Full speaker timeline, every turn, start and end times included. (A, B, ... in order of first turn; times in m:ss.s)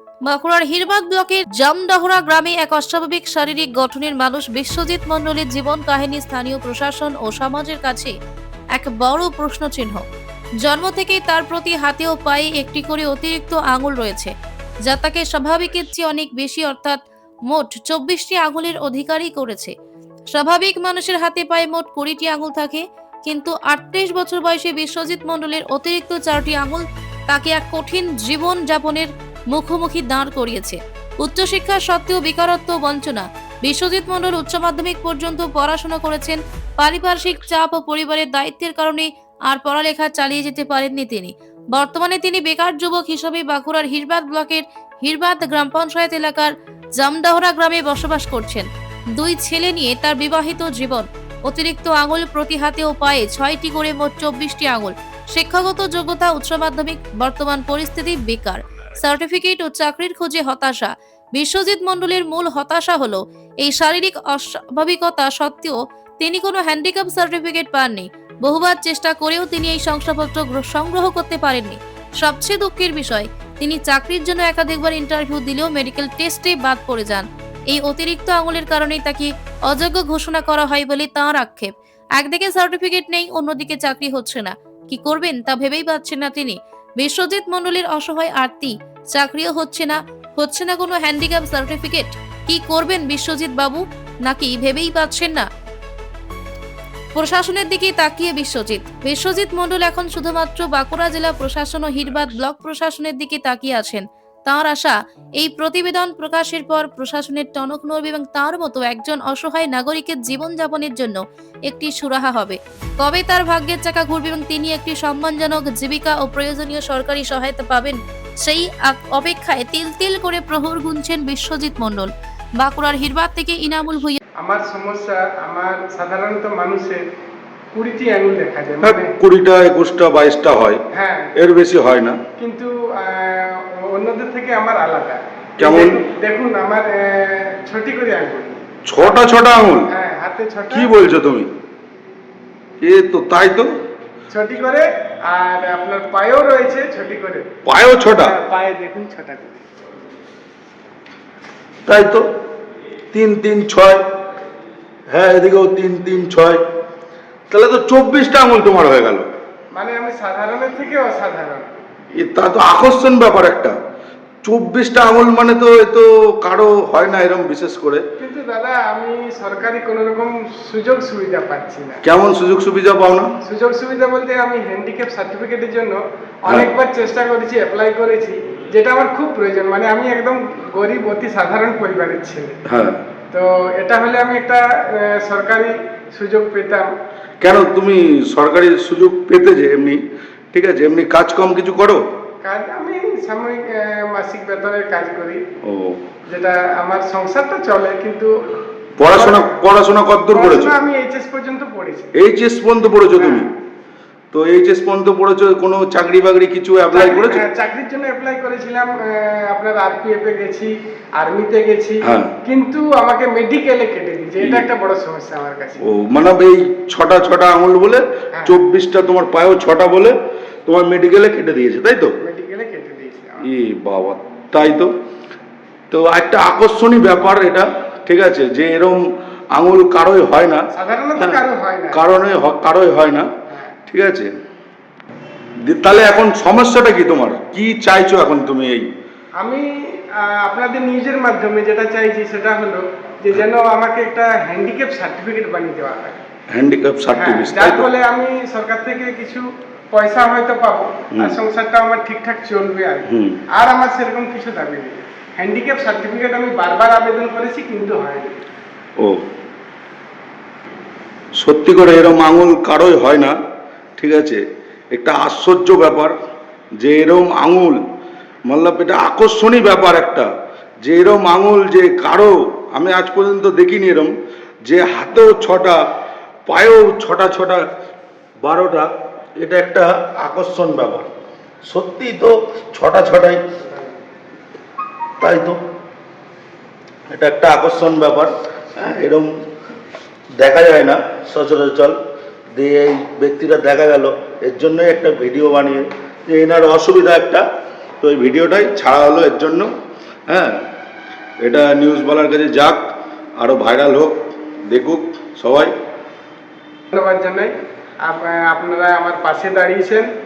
0:00.2-0:08.1 A
0:08.8-0:10.0 A
0:10.6-0:14.3 A
0:14.9-0:17.0 A
0:17.5-0:19.7 A
0:20.3-0:48.7 A
0:49.2-1:35.4 A
1:37.1-2:04.2 A
2:04.4-2:07.0 B
2:07.7-2:09.1 B
2:08.8-2:10.8 C
2:10.9-2:11.3 B
2:11.3-2:12.2 C
2:12.4-2:18.6 B
2:15.6-2:16.0 C
2:18.8-2:19.9 C
2:19.9-2:20.9 B
2:20.7-2:21.5 C
2:22.8-2:23.7 C
2:24.3-2:27.5 B
2:27.7-2:28.3 C
2:28.0-2:29.6 B
2:31.8-2:32.2 C
2:33.1-2:34.0 C
2:35.1-2:36.6 C
2:37.5-2:39.3 C
2:39.7-2:41.8 B
2:42.1-2:43.8 C
2:44.4-2:48.0 C
2:48.2-2:52.0 B
2:52.0-2:53.3 C
2:53.4-3:02.6 B
3:02.6-3:03.0 C
3:03.3-3:06.9 B
3:07.4-3:10.0 C
3:10.5-3:12.0 C
3:12.4-3:15.4 B
3:15.6-3:16.0 C
3:16.3-3:18.6 B
3:19.0-3:20.7 C
3:19.1-3:19.6 B
3:20.3-3:22.1 B
3:22.1-3:23.5 C
3:23.2-3:23.5 B
3:24.3-3:27.4 C
3:26.9-3:35.8 B
3:32.0-3:32.3 C
3:34.4-3:34.7 C
3:35.8-3:42.1 C
3:38.4-3:38.6 B
3:42.2-3:43.5 B
3:43.4-3:44.9 C
3:45.9-3:49.0 C
3:49.5-3:50.6 C
3:50.7-3:52.0 B
3:51.9-3:53.3 C
3:53.5-3:53.8 B
3:53.9-3:54.3 C
3:55.7-3:58.9 C
3:59.4-4:06.2 B
4:06.5-4:07.9 C
4:07.1-4:18.4 B
4:13.1-4:13.4 C
4:19.0-4:19.2 C
4:21.4-4:23.3 C
4:24.0-4:24.4 C
4:24.9-4:26.1 C
4:26.8-4:27.8 C
4:28.5-4:30.3 C
4:30.8-4:34.1 C
4:34.6-4:35.8 C
4:36.5-4:37.6 C
4:38.4-4:38.9 C
4:39.4-4:41.1 C
4:41.6-4:43.4 C
4:45.2-4:45.6 C
4:47.1-4:49.3 C
4:50.4-4:52.0 C
4:52.6-4:57.4 C
4:58.0-4:59.7 C
5:00.3-5:00.6 C
5:01.4-5:04.2 C
5:04.7-5:05.7 C
5:06.9-5:10.1 B